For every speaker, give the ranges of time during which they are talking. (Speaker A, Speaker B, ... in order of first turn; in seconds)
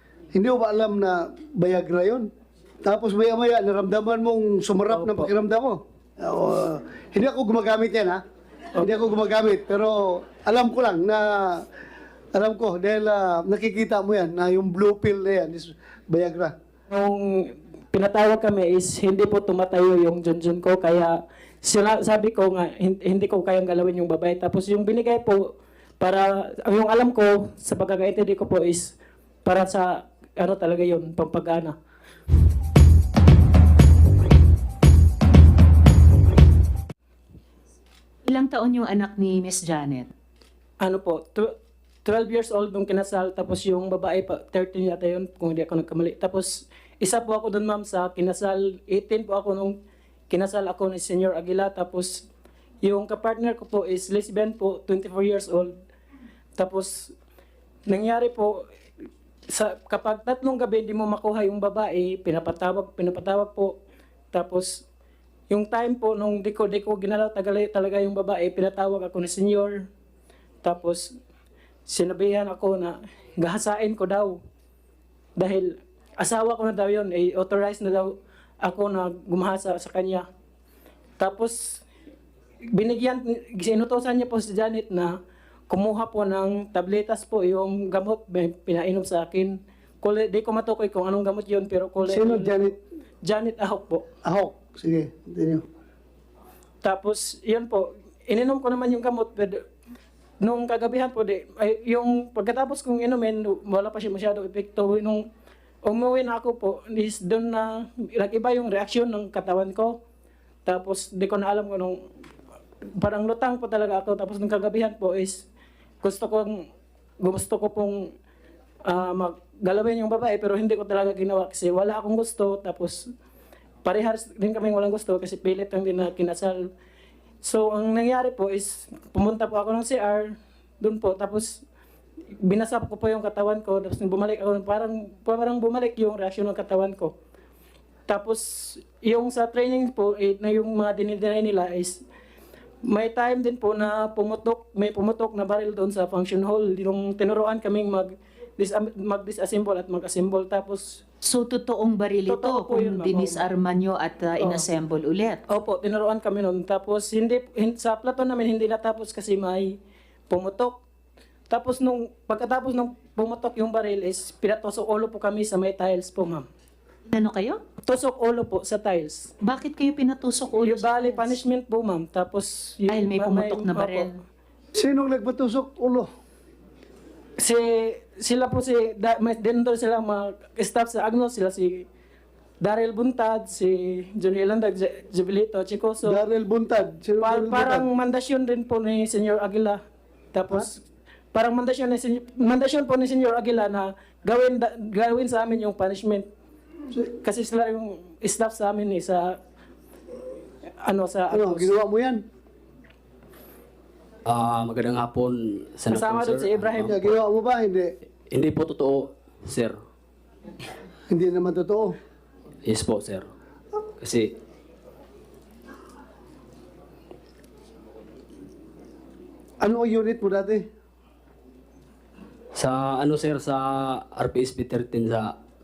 Speaker A: 0.3-2.3, 2.9-8.2, 8.8-11.7, 12.3-16.6, 92.1-92.8, 94.2-95.6, 174.8-176.1, 186.0-187.9, 201.3-202.2, 206.8-207.9, 211.1-212.0, 219.6-220.7
Speaker B: 4.9-5.3, 16.9-25.5, 26.0-28.9, 29.4-31.8, 40.8-41.5, 42.0-49.8, 50.3-52.2, 52.8-55.8, 56.6-57.1, 57.9-58.6, 59.5-63.8, 64.3-64.8, 65.5-69.8, 70.6-71.1, 71.9-74.4, 75.4-80.2, 81.2-81.8, 82.7-85.1, 85.7-92.7, 93.2-94.0, 96.8-99.6, 100.4-105.2, 105.8-110.0, 110.7-112.0, 113.0-115.4, 116.0-116.6, 117.2-118.1, 118.9-123.0, 123.8-126.7, 127.4-131.6, 132.4-137.1, 138.1-142.0, 142.8-151.0, 152.3-153.4, 155.5-159.8, 160.3-160.8, 161.5-166.5, 167.9-169.3, 170.6-174.1, 177.4-181.9, 182.6-186.2, 187.2-189.8, 190.3-190.8, 191.3-196.3, 197.2-199.4, 200.8-201.7, 205.9-207.0
Speaker C: 38.3-40.1, 151.2-155.4, 167.1-167.6, 169.4-171.3, 172.9-174.1
Speaker D: 204.2-206.9, 208.3-209.8, 212.6-213.3, 214.0-214.4, 222.5-225.4